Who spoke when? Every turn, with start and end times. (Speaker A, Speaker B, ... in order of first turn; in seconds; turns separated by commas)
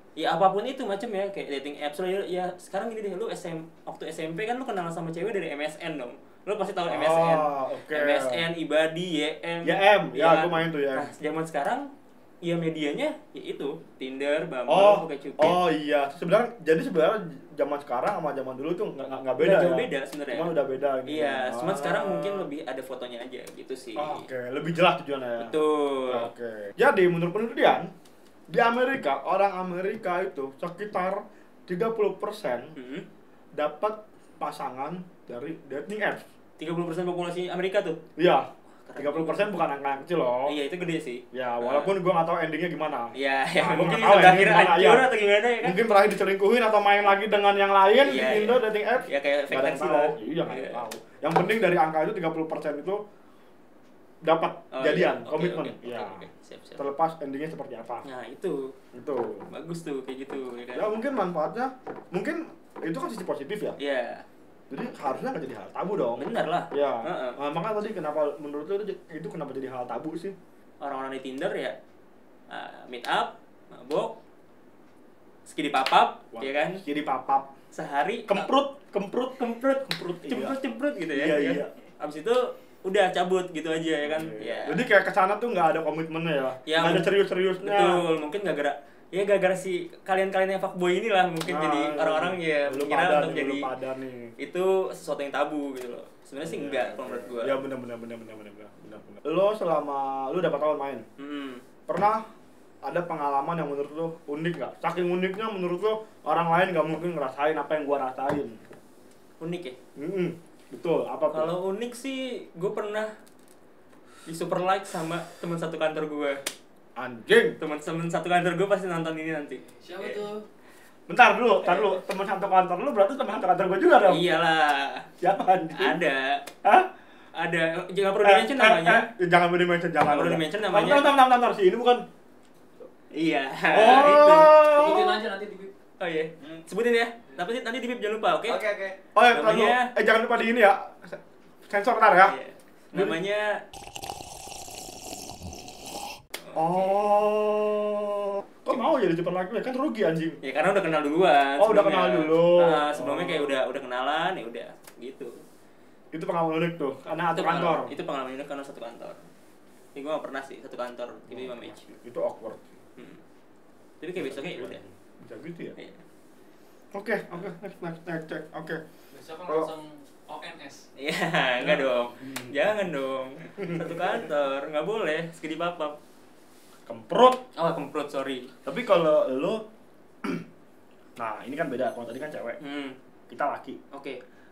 Speaker A: 0.2-11.9, Speaker B: 6.9-8.4, Speaker B: 9.6-11.1, Speaker A: 12.4-15.6, Speaker B: 14.7-22.5, Speaker A: 19.4-20.5, Speaker A: 21.1-24.3, Speaker B: 23.9-25.5, Speaker A: 25.4-26.3, Speaker B: 26.1-27.9, Speaker B: 28.5-32.7, Speaker A: 32.8-33.1, Speaker B: 33.5-36.2, Speaker A: 36.6-38.0, Speaker B: 38.2-40.5, Speaker A: 38.9-39.5, Speaker A: 40.5-41.9, Speaker B: 41.3-45.1, Speaker A: 43.1-45.8, Speaker B: 45.6-53.0, Speaker A: 48.0-50.8, Speaker B: 54.2-56.2, Speaker A: 54.7-56.8, Speaker B: 56.8-58.0, Speaker A: 58.0-58.7, Speaker B: 58.9-59.5, Speaker A: 59.5-60.9, Speaker B: 60.7-63.8, Speaker A: 63.8-64.2, Speaker B: 64.7-70.3, Speaker A: 66.2-67.4, Speaker A: 70.8-71.8, Speaker A: 72.5-74.1, Speaker A: 75.5-76.8, Speaker B: 76.3-77.5, Speaker A: 77.7-78.5, Speaker B: 78.3-80.6, Speaker A: 80.2-84.8, Speaker B: 81.1-81.7, Speaker B: 84.0-88.0, Speaker A: 86.7-93.7, Speaker B: 91.4-94.3, Speaker A: 94.4-97.6, Speaker B: 96.4-101.0, Speaker A: 101.2-101.6, Speaker B: 101.9-102.2, Speaker B: 102.8-108.6, Speaker A: 109.4-109.8, Speaker B: 110.0-111.5, Speaker A: 111.3-113.1, Speaker A: 114.2-116.4, Speaker B: 117.0-117.6, Speaker A: 117.6-120.2, Speaker C: 119.7-120.4, Speaker B: 121.1-124.3, Speaker A: 121.6-122.0, Speaker A: 124.0-125.1, Speaker B: 125.2-126.0, Speaker A: 125.7-126.4, Speaker B: 126.6-126.9, Speaker A: 127.3-129.1, Speaker B: 128.2-132.0, Speaker A: 130.0-131.1, Speaker A: 133.1-134.8, Speaker B: 133.7-135.2, Speaker C: 133.8-135.7, Speaker A: 136.0-138.6, Speaker C: 138.5-139.0, Speaker B: 139.1-142.3, Speaker A: 139.3-139.9, Speaker A: 142.2-143.6, Speaker B: 142.9-143.2, Speaker A: 146.4-147.0, Speaker B: 146.5-150.4, Speaker A: 150.4-155.4, Speaker B: 151.6-153.6, Speaker B: 156.1-157.9, Speaker A: 157.3-159.2, Speaker A: 159.9-162.0, Speaker B: 161.3-162.7, Speaker A: 164.0-164.8, Speaker B: 164.2-165.7, Speaker B: 166.9-168.8, Speaker C: 169.1-170.8, Speaker B: 169.4-169.7, Speaker A: 171.0-176.0, Speaker B: 171.6-172.7, Speaker B: 173.6-174.0, Speaker B: 176.9-177.4, Speaker A: 177.5-178.5, Speaker B: 178.6-179.6, Speaker B: 181.2-182.6, Speaker A: 182.6-183.0, Speaker B: 183.3-183.8, Speaker A: 183.9-184.2